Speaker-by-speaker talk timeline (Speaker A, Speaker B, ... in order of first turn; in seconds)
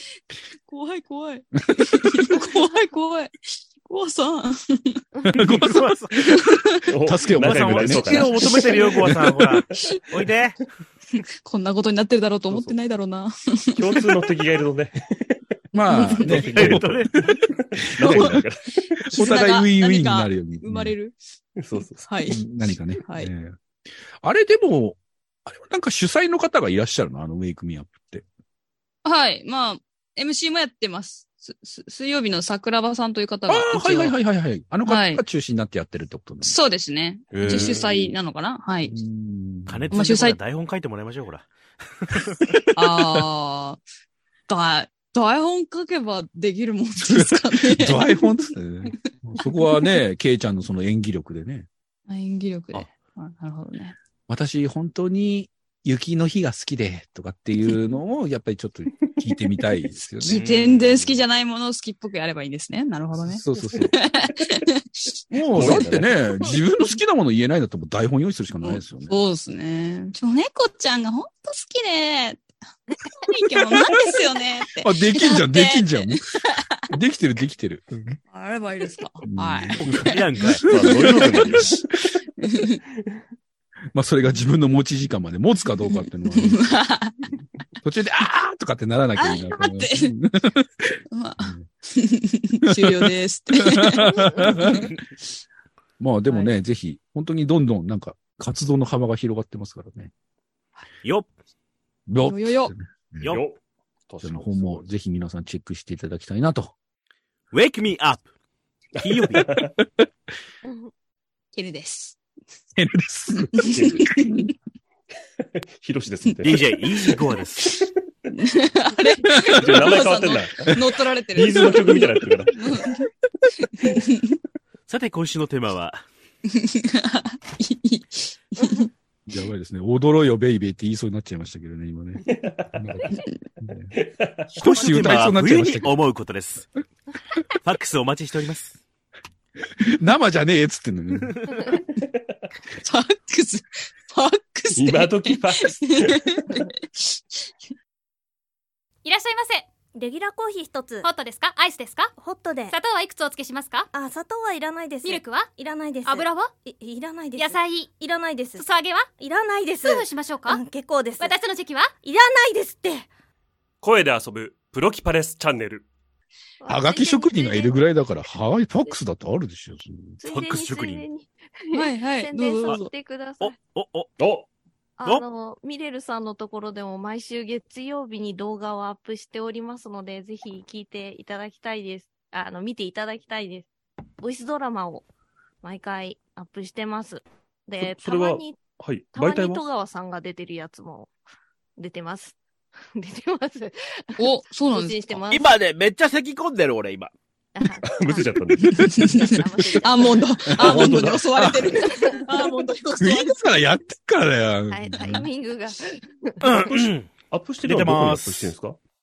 Speaker A: 0.7-5.0, 6.3-6.7, 11.4-14.2, 15.9-16.2, 18.0-18.3, 19.1-21.1, 22.0-23.3, 29.0-34.1, 34.8-35.2, 36.4-38.9, 39.9-40.4, 42.7-43.8, 44.5-48.5, 49.4-50.0, 52.1-53.9, 60.2-65.1, 68.6-72.5, 73.2-76.8, 78.3-80.1, 82.4-82.8, 85.8-87.2, 89.2-90.1, 91.1-94.9, 102.2-102.7, 111.5-112.2, 113.5-114.5, 118.3-123.1, 123.6-124.4, 126.5-128.9, 142.8-147.5, 171.7-172.9, 194.2-195.2, 198.7-203.4
Speaker B: 5.3-6.0, 7.0-8.3, 9.1-9.4, 15.7-17.4, 18.0-18.4, 19.1-20.9, 22.3-23.5, 24.2-28.2, 33.5-36.6, 37.4-37.8, 38.9-40.0, 47.0-51.7, 54.3-60.4, 63.2-63.9, 65.3-69.1, 74.8-76.3, 76.9-78.2, 79.2-81.8, 83.9-86.8, 87.8-91.7, 92.7-94.9, 96.0-100.1, 102.1-103.3, 104.2-106.7, 112.8-114.5, 129.3-132.2, 132.7-133.9, 134.6-135.9, 139.8-141.3, 166.7-170.2, 198.7-199.3, 200.6-201.8, 203.0-205.3
Speaker C: 5.4-6.2, 7.4-10.6, 16.3-17.1, 39.6-41.5, 42.0-42.4, 60.3-61.2, 79.9-80.7, 107.5-108.2, 109.0-109.5, 116.4-117.7, 124.9-126.0, 134.6-136.7, 137.6-138.8, 170.2-171.1, 173.4-174.1, 195.3-197.1, 206.4-208.5
Speaker D: 6.9-8.7, 13.8-15.4, 16.2-19.1, 21.6-22.2, 37.3-38.1, 65.5-66.2, 79.8-80.1, 80.6-81.8, 103.2-104.8, 109.0-109.7, 113.6-114.2, 115.4-117.9, 119.5-120.8, 121.3-122.8, 132.2-132.9, 133.9-134.6, 141.9-142.2, 144.7-146.6, 163.8-165.8, 174.2-174.5, 187.8-189.6, 197.8-199.0, 200.6-201.8, 207.3-208.8
Speaker E: 94.1-94.5, 110.6-110.9, 166.6-167.8, 170.2-173.5, 175.0-183.7, 184.2-185.1, 185.6-191.1, 191.8-192.4, 192.9-194.2, 194.7-195.5, 197.5-198.4, 199.1-200.2, 201.9-202.2, 204.7-206.7
Speaker F: 149.0-149.7, 151.0-152.1, 152.7-153.9, 155.0-155.5, 156.0-156.6, 157.3-157.9, 158.5-159.1, 159.8-160.6, 161.2-161.9
Speaker G: 149.9-151.1, 152.2-152.7, 153.9-161.3, 162.0-163.1